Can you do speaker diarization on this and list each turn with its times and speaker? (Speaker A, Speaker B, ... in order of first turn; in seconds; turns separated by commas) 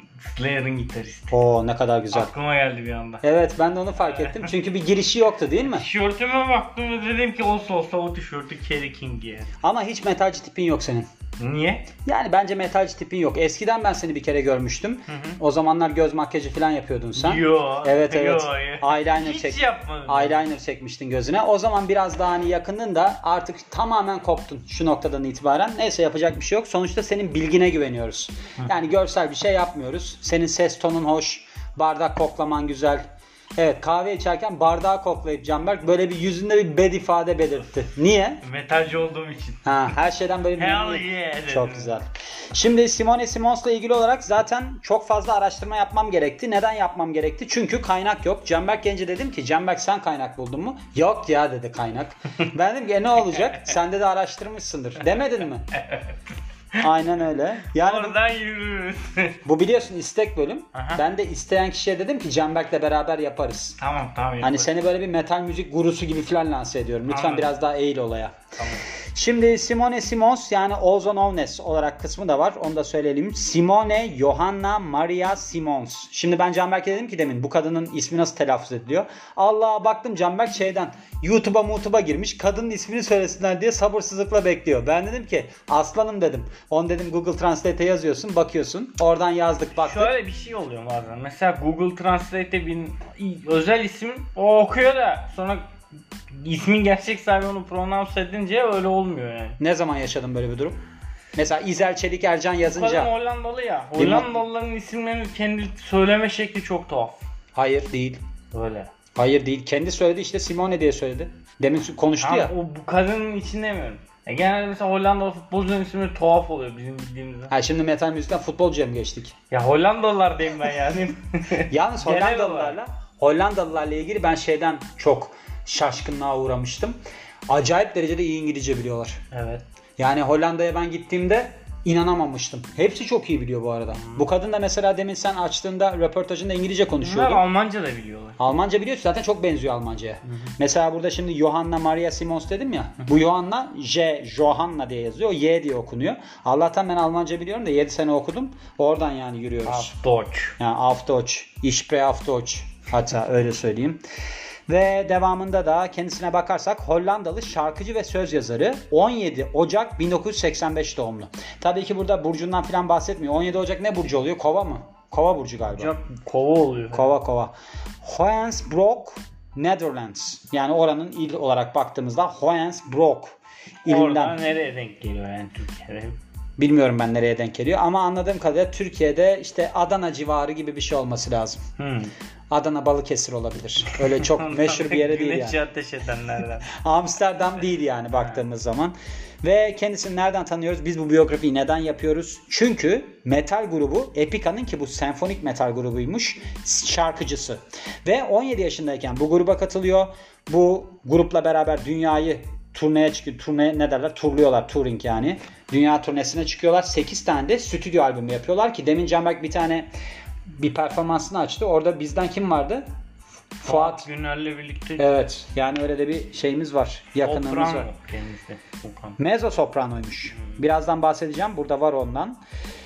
Speaker A: 0.2-1.4, Speaker B: 1.3-2.3, Speaker A: 2.1-3.2, Speaker B: 3.2-5.9, Speaker A: 4.0-4.5, Speaker A: 5.6-9.5, Speaker B: 9.6-11.1, Speaker A: 11.4-11.9, Speaker B: 12.1-33.0, Speaker A: 15.1-15.4, Speaker A: 17.2-20.4, Speaker B: 33.6-38.4, Speaker A: 38.4-39.6, Speaker B: 39.7-55.7, Speaker A: 40.6-42.0, Speaker A: 55.7-56.1, Speaker B: 56.8-58.2, Speaker A: 57.7-59.4, Speaker B: 59.5-63.8, Speaker A: 60.7-61.0, Speaker A: 63.8-64.7, Speaker B: 64.4-68.4, Speaker A: 67.1-67.5, Speaker A: 68.6-68.9, Speaker B: 69.2-90.1, Speaker A: 89.7-95.7, Speaker A: 96.3-99.6, Speaker B: 99.6-100.8, Speaker B: 101.4-103.1, Speaker A: 102.7-107.2, Speaker B: 104.0-104.3, Speaker B: 107.5-108.2, Speaker A: 108.5-108.9, Speaker B: 109.2-112.5, Speaker A: 112.2-117.5, Speaker B: 117.5-119.3, Speaker A: 119.5-122.8, Speaker B: 121.7-127.0, Speaker B: 127.5-129.2, Speaker A: 129.3-129.6, Speaker B: 130.0-137.4, Speaker A: 133.9-134.3, Speaker A: 137.0-138.4, Speaker B: 138.4-149.9, Speaker A: 149.7-150.6, Speaker B: 150.6-154.0, Speaker B: 154.7-165.9, Speaker A: 165.7-167.2, Speaker B: 166.9-174.4, Speaker A: 173.9-176.2, Speaker B: 176.6-181.6, Speaker A: 181.8-182.1, Speaker B: 182.5-185.6, Speaker A: 184.1-186.7, Speaker B: 186.7-209.9, Speaker B: 210.5-212.8, Speaker B: 213.6-214.1, Speaker A: 213.6-215.1, Speaker B: 215.0-217.9, Speaker A: 217.2-219.2, Speaker B: 219.2-222.4, Speaker A: 220.3-220.6